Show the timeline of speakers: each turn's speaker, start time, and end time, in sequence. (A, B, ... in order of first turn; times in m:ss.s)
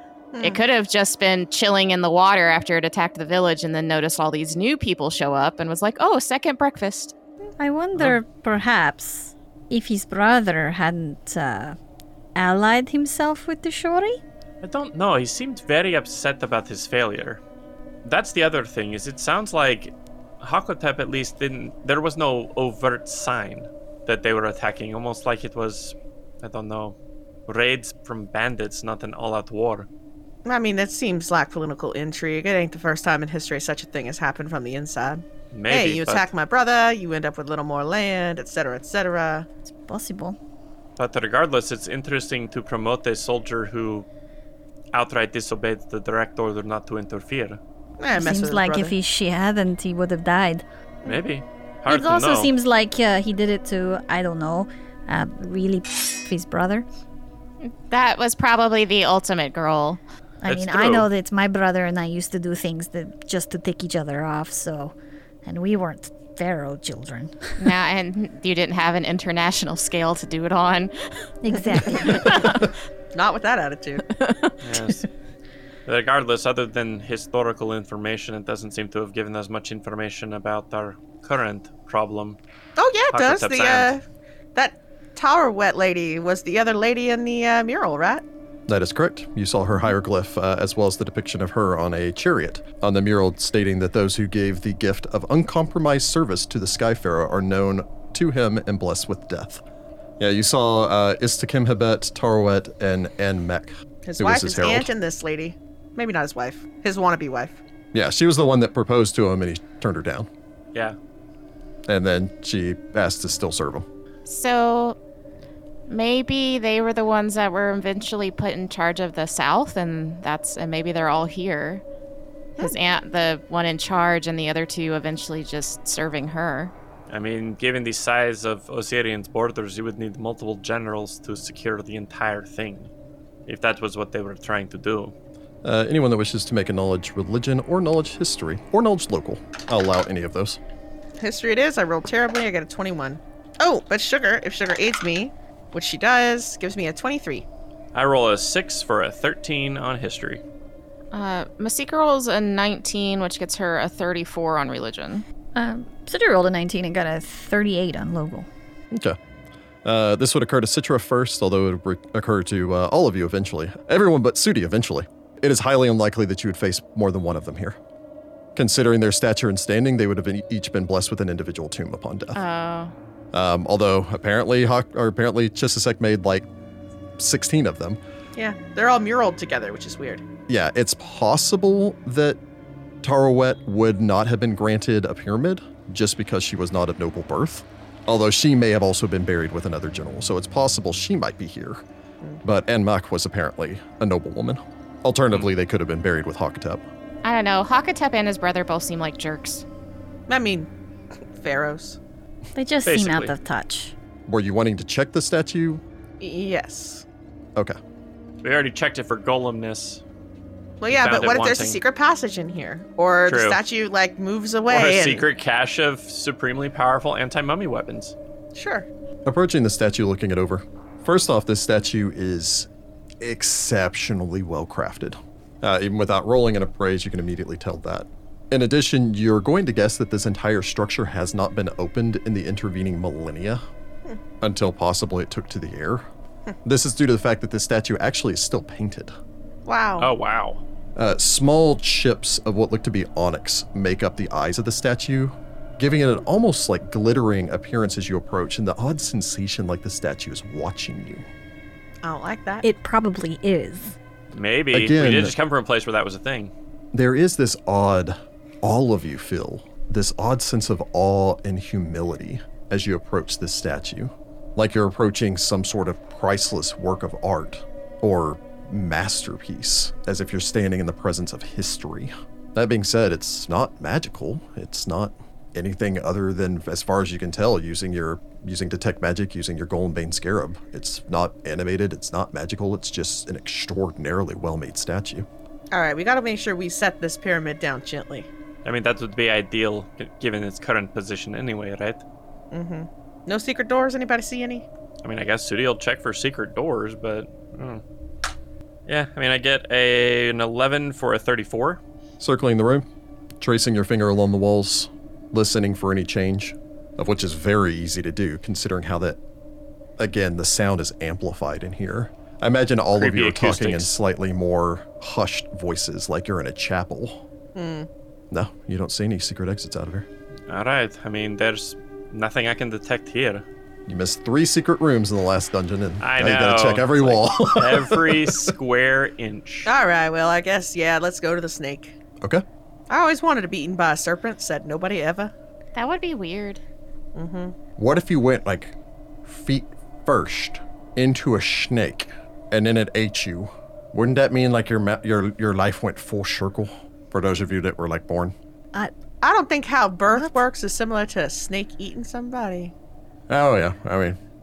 0:00.3-0:00.6 A
0:00.4-0:07.1 B
0:07.6-0:11.8 C
0:12.4-0:14.2 C
0:14.6-0:17.4 D
0:18.0-0:27.0 D
0:27.5-0:29.9 D
0:30.4-0:39.5 A
0:35.5-0:36.3 D
0:39.8-0:40.4 C
0:41.0-0:44.1 D
0:44.9-0:47.6 D
0:48.0-0:48.9 A
0:48.1-0:50.6 C
0:51.0-0:52.5 D
0:51.9-0:56.8 C
0:57.6-1:00.0 B
1:00.4-1:04.9 C
1:00.5-1:01.1 D
1:05.4-1:07.5 C
1:07.6-1:12.6 B
1:11.4-1:12.5 C
1:12.2-1:12.5 A
1:13.1-1:14.0 A
1:14.1-1:14.6 B
1:14.6-1:15.1 D
1:15.8-1:22.4 D
1:22.8-1:24.0 A
1:23.1-1:23.9 D
1:24.5-1:28.2 A
1:28.7-1:39.6 E
1:40.2-1:44.9 E
1:44.0-1:47.6 A
1:47.9-1:50.3 E
1:51.9-1:53.8 E
1:54.2-1:55.0 B
1:55.9-2:01.8 B
2:02.6-2:06.7 B
2:07.1-2:12.9 D
2:13.4-2:15.1 D
2:15.6-2:20.6 E
2:21.2-2:27.4 A
2:27.9-2:30.4 D
2:31.1-2:35.2 B
2:35.5-2:38.5 C
2:38.9-2:39.2 E
2:39.8-2:47.8 E
2:48.6-2:52.4 E
2:52.3-2:52.9 B
2:53.3-2:56.5 E
2:57.2-2:58.0 E
2:58.4-3:00.2 A
3:00.5-3:02.4 E
3:03.0-3:11.8 E
3:12.4-3:16.8 E
3:17.2-3:19.6 B
3:20.3-3:20.7 A
3:21.2-3:22.0 A
3:22.5-3:23.9 C
3:22.8-3:23.3 D
3:24.3-3:25.8 E
3:26.2-3:27.0 A
3:28.4-3:30.0 D
3:30.8-3:35.2 A
3:30.9-3:31.8 D
3:33.3-3:33.6 D
3:34.7-3:38.1 D
3:38.5-3:38.9 A
3:39.2-3:42.7 E
3:43.2-3:53.6 E
3:54.4-3:56.0 E
3:56.6-3:59.1 E
3:59.6-4:00.1 A
4:00.0-4:00.6 D
4:01.0-4:11.2 E
4:12.0-4:12.7 A
4:12.6-4:14.0 C
4:14.3-4:16.5 D
4:14.7-4:15.3 E
4:16.9-4:45.3 E
4:45.7-4:48.3 A
4:48.6-4:52.0 D
4:52.5-4:54.6 A
4:55.0-4:57.8 D
4:58.9-5:01.8 D
5:02.2-5:02.8 E
5:03.4-5:09.2 E
5:10.0-5:17.2 E
5:12.9-5:13.9 D
5:17.5-5:17.9 A
5:18.3-5:20.0 E
5:20.5-5:23.4 D
5:23.9-5:28.5 E
5:26.0-5:29.7 D
5:29.6-5:31.9 A
5:32.9-5:35.3 A
5:35.7-5:36.6 B
5:37.1-5:37.5 A
5:37.8-5:48.3 E
5:49.2-5:52.7 A
5:50.1-5:50.4 C
5:53.3-5:54.2 E